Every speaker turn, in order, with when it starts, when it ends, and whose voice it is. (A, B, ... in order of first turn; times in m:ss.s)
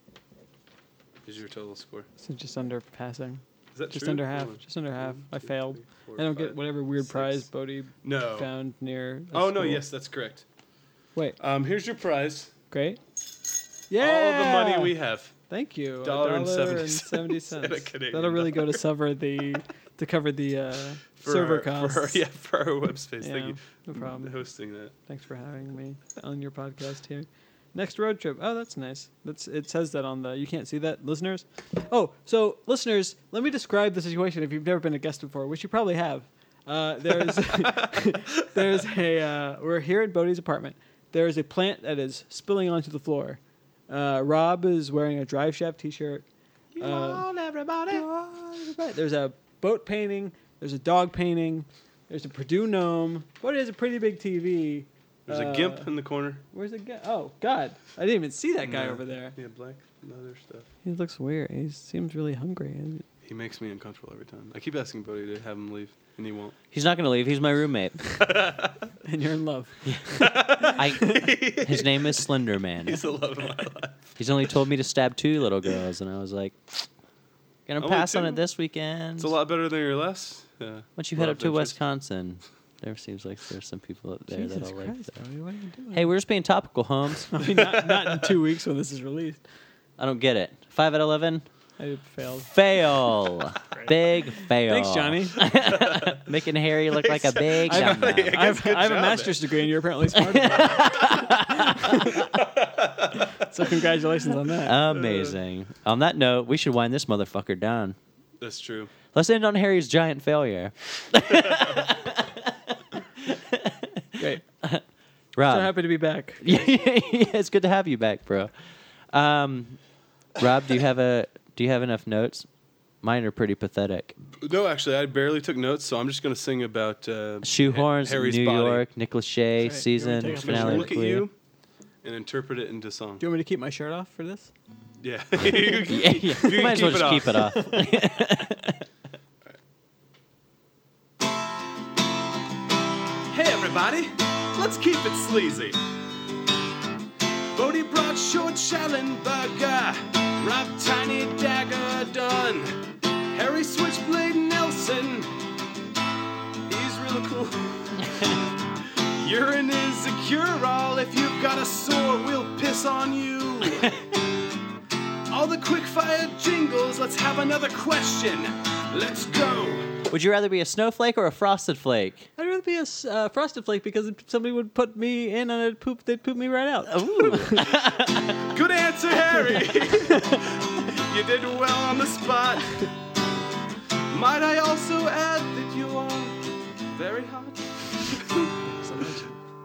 0:01.2-0:02.1 A
0:02.2-0:09.8 B
0:03.7-0:07.4 A
0:08.0-0:08.5 A
0:09.3-0:10.4 A
0:11.4-0:12.5 A
0:12.7-0:13.0 B
0:13.9-0:14.9 B
0:14.0-0:15.3 A
0:15.5-0:22.2 B
0:16.0-0:18.8 A
0:21.2-0:24.9 A
0:23.2-0:24.4 B
0:25.1-0:46.2 B
0:46.8-0:48.1 A
0:46.8-0:47.4 B
0:47.9-0:55.9 B
0:55.3-0:56.4 A
0:56.5-0:59.3 B
0:58.6-1:00.7 A
1:00.8-1:03.0 B
1:03.2-1:06.6 A
1:06.7-1:08.1 C
1:08.2-1:08.8 A
1:09.0-1:11.3 B
1:09.8-1:13.0 C
1:10.1-1:11.9 A
1:12.8-1:14.0 A
1:14.2-1:16.8 C
1:17.7-1:19.3 C
1:17.8-1:18.4 A
1:19.2-1:21.8 A
1:21.0-1:25.1 C
1:24.3-1:26.1 B
1:25.9-1:27.4 C
1:27.3-1:29.4 B
1:28.0-1:28.3 A
1:30.0-1:31.4 C
1:31.8-1:32.5 B
1:32.5-1:38.3 C
1:33.7-1:35.4 B
1:35.6-1:36.2 A
1:36.9-1:39.5 A
1:37.7-1:41.2 B
1:40.2-1:42.1 C
1:41.8-1:42.1 B
1:42.1-1:43.7 A
1:43.5-1:44.8 B
1:44.6-1:48.0 C
1:44.9-1:45.3 A
1:48.4-1:48.9 A
1:49.1-1:52.5 C
1:53.2-1:54.8 C
1:55.3-1:55.7 C
1:55.4-1:56.5 B
1:56.4-1:58.5 C
1:59.1-1:59.8 C
2:00.4-2:02.5 C
2:03.0-2:04.1 C
2:04.4-2:08.8 A
2:07.4-2:11.2 C
2:09.6-2:10.9 B
2:10.3-2:11.3 A
2:12.0-2:13.2 A
2:13.2-2:14.5 B
2:15.0-2:17.4 A
2:15.8-2:18.8 C
2:16.2-2:17.9 B
2:23.3-2:25.8 A
2:27.5-2:35.3 A
2:36.7-2:38.3 A
2:39.1-2:43.9 A
2:45.3-2:50.0 A
2:50.1-2:52.3 C
2:52.4-2:57.8 B
2:56.9-2:58.4 C
2:58.4-3:02.8 A
2:59.4-3:00.4 B
3:04.1-3:08.5 A
3:08.8-3:09.3 B